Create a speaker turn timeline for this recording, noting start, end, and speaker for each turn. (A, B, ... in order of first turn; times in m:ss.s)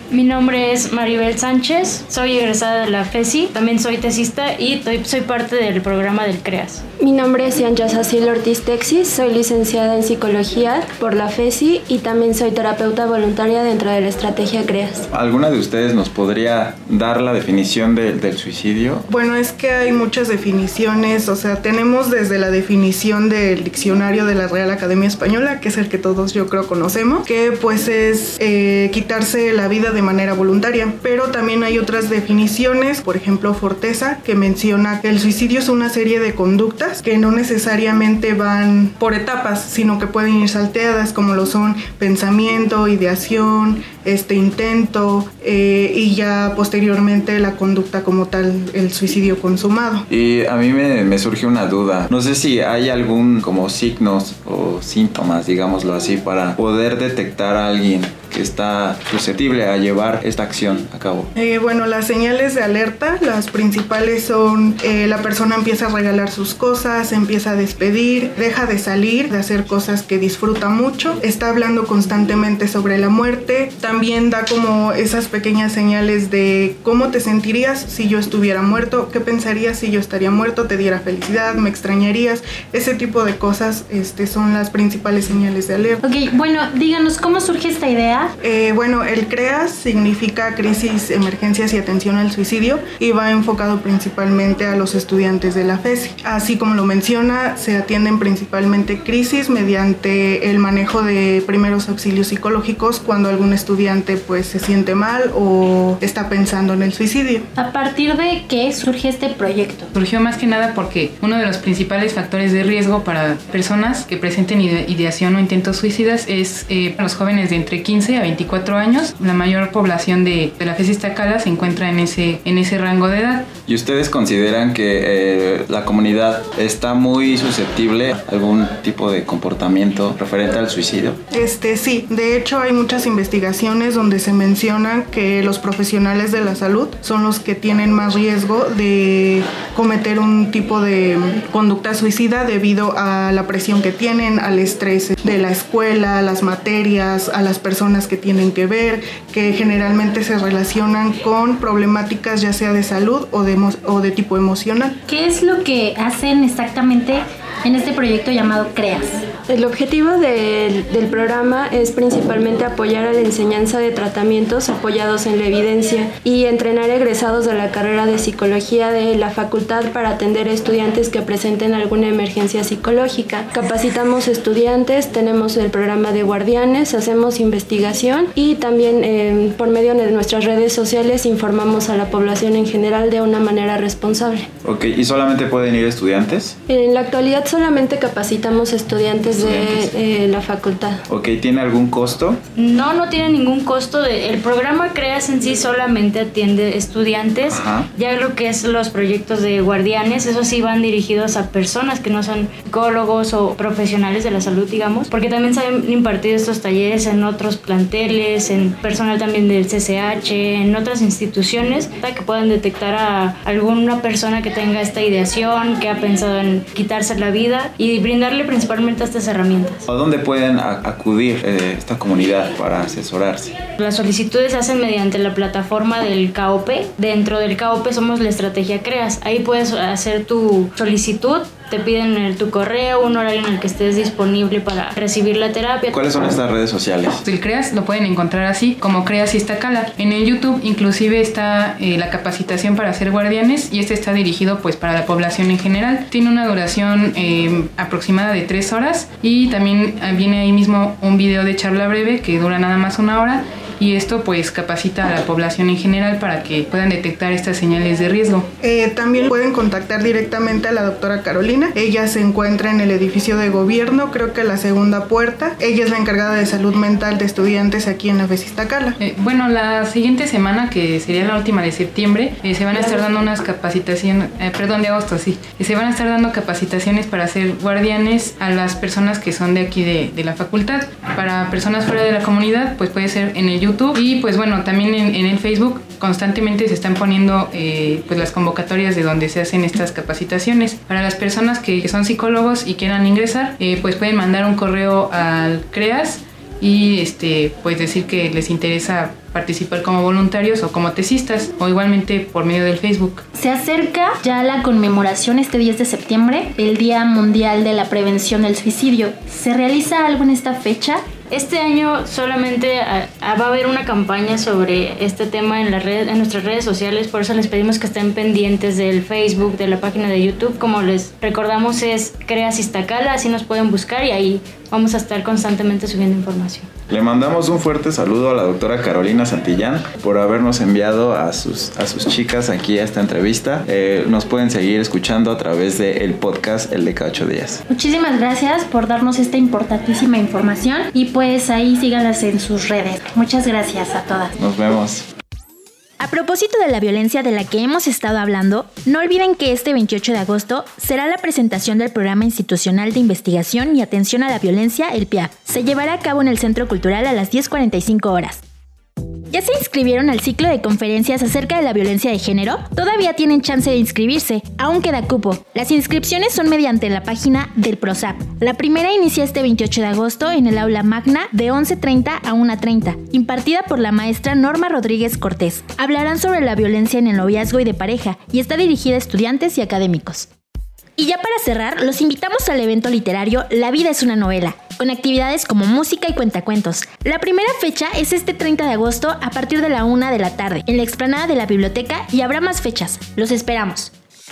0:00.1-0:06.8 A
0:07.0-0:15.1 B
0:15.1-0:19.1 C
0:19.1-0:50.0 D
0:50.1-1:01.3 C
1:01.4-1:26.0 D
1:26.0-1:28.3 E
1:28.4-1:47.4 D
1:47.6-1:49.9 E
1:49.9-2:03.5 F
2:03.6-2:11.2 C
2:11.3-2:34.9 D
2:35.1-2:39.2 E
2:39.5-3:04.5 B
3:04.6-3:06.6 C
3:06.7-3:11.0 B
3:09.3-3:09.9 C
3:11.1-3:12.4 C
3:12.6-3:39.8 A
3:17.5-3:17.9 C
3:39.9-3:43.5 C
3:43.8-3:56.0 A
3:55.9-3:57.2 C
3:57.2-4:18.5 F
4:18.6-4:29.0 D
4:29.0-5:03.2 F
5:03.3-5:11.0 E
5:11.3-5:26.7 A
5:26.9-5:37.6 C
5:37.7-5:44.4 E
5:44.4-5:45.0 C
5:46.0-5:58.4 E
5:59.3-6:20.3 E
6:21.0-6:33.9 E